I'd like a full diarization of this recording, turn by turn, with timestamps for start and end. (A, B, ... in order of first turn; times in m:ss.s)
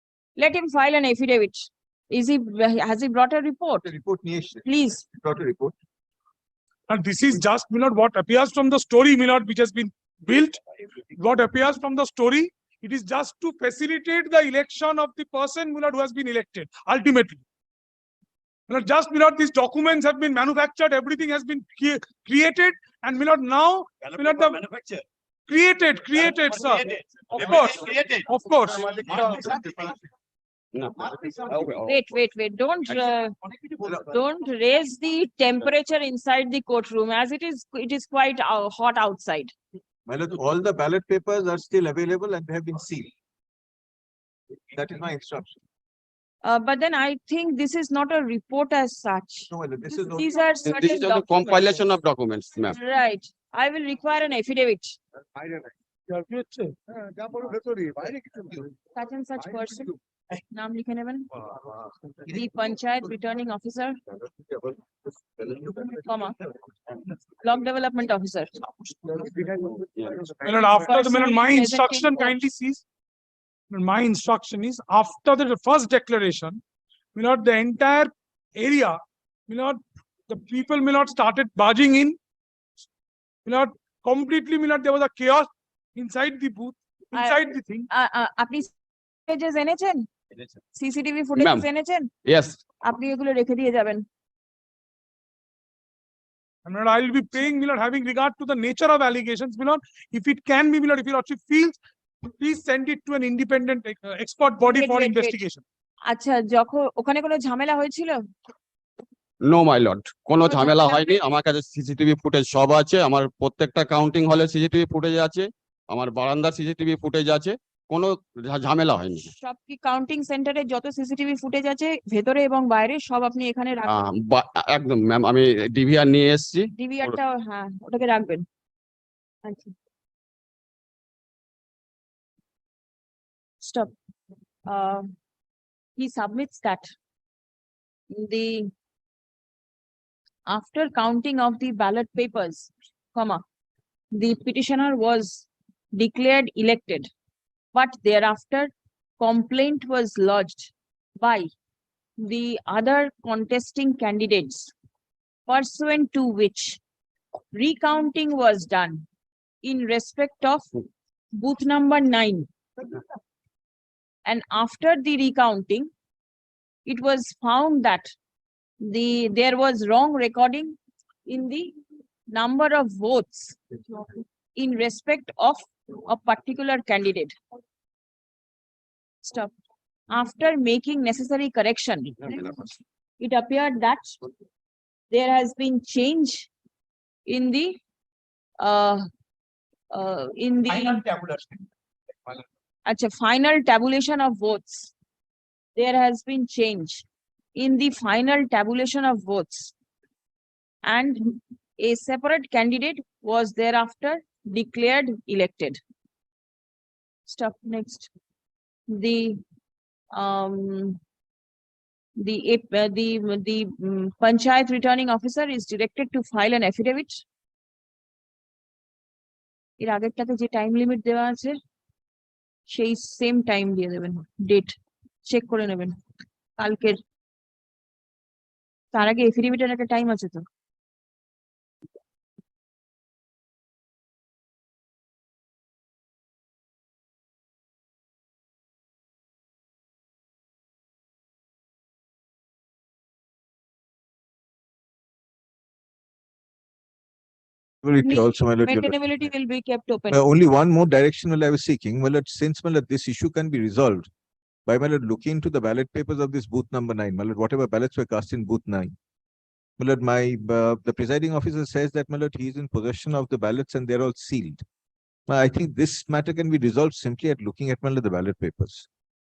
0:00.4-0:03.9 A
0:03.8-0:05.7 B
0:04.6-0:05.0 A
0:06.9-0:10.6 C
0:11.1-0:17.4 C
0:18.7-0:24.6 C
0:24.0-0:25.0 D
0:25.5-0:28.9 C
0:26.2-0:30.0 D
0:29.1-0:29.6 B
0:30.8-0:32.0 E
0:30.9-0:31.8 D
0:31.8-0:33.3 A
0:33.4-0:34.2 D
0:34.1-0:39.5 A
0:40.1-0:43.1 B
0:44.7-0:45.6 B
0:46.4-0:51.8 A
0:49.5-0:50.4 B
0:50.7-0:52.8 E
0:52.7-0:55.0 A
0:56.1-0:56.8 C
0:57.0-0:58.5 D
0:59.0-1:00.0 A
1:00.5-1:01.3 A
1:01.7-1:02.4 D
1:02.3-1:04.0 A
1:05.4-1:06.0 D
1:06.0-1:06.4 A
1:07.4-1:08.5 A
1:08.6-1:09.4 D
1:10.4-1:12.8 C
1:10.7-1:12.4 A
1:13.7-1:16.6 C
1:17.2-1:22.2 C
1:23.4-1:27.9 C
1:27.1-1:28.7 A
1:29.3-1:30.1 A
1:30.8-1:32.1 A
1:31.4-1:31.7 E
1:32.3-1:32.6 E
1:32.8-1:34.0 A
1:36.7-1:45.6 C
1:44.6-1:45.4 A
1:46.1-1:48.2 A
1:49.5-1:59.3 E
1:50.5-1:51.1 A
1:59.3-2:04.1 A
2:03.9-2:07.2 E
2:06.8-2:08.4 A
2:09.4-2:09.7 A
2:13.6-2:13.9 A
2:14.7-2:15.1 A
2:16.0-2:16.9 A
2:18.1-2:18.7 A
2:20.5-2:23.4 A
2:24.2-2:27.1 A
2:27.7-2:31.5 A
2:32.2-2:34.7 A
2:35.5-2:36.8 A
2:37.5-2:39.0 A
2:39.6-2:40.7 A
2:41.4-2:42.5 A
2:44.3-2:45.9 A
2:46.9-2:48.1 A
2:48.8-2:51.8 A
2:52.3-2:53.6 A
2:54.6-2:57.4 A
2:59.2-2:59.5 A
3:00.1-3:02.5 A
3:02.2-3:02.7 E
3:03.2-3:04.2 A
3:05.1-3:06.5 A
3:07.3-3:07.8 A
3:08.6-3:09.0 A
3:09.9-3:11.0 A
3:10.7-3:11.7 D
3:12.9-3:14.9 A
3:15.8-3:17.0 A
3:17.6-3:19.7 A
3:20.9-3:25.8 A
3:27.3-3:28.1 A
3:28.9-3:29.4 A
3:30.1-3:31.0 A
3:32.2-3:37.2 A
3:39.8-3:41.6 A
3:42.7-3:46.0 A
3:46.6-3:47.0 A
3:48.9-3:50.4 A
4:07.8-4:09.2 B
4:08.0-4:10.2 A
4:10.1-4:14.1 B
4:14.7-4:18.9 B
4:19.8-4:24.6 B
4:25.3-4:28.9 B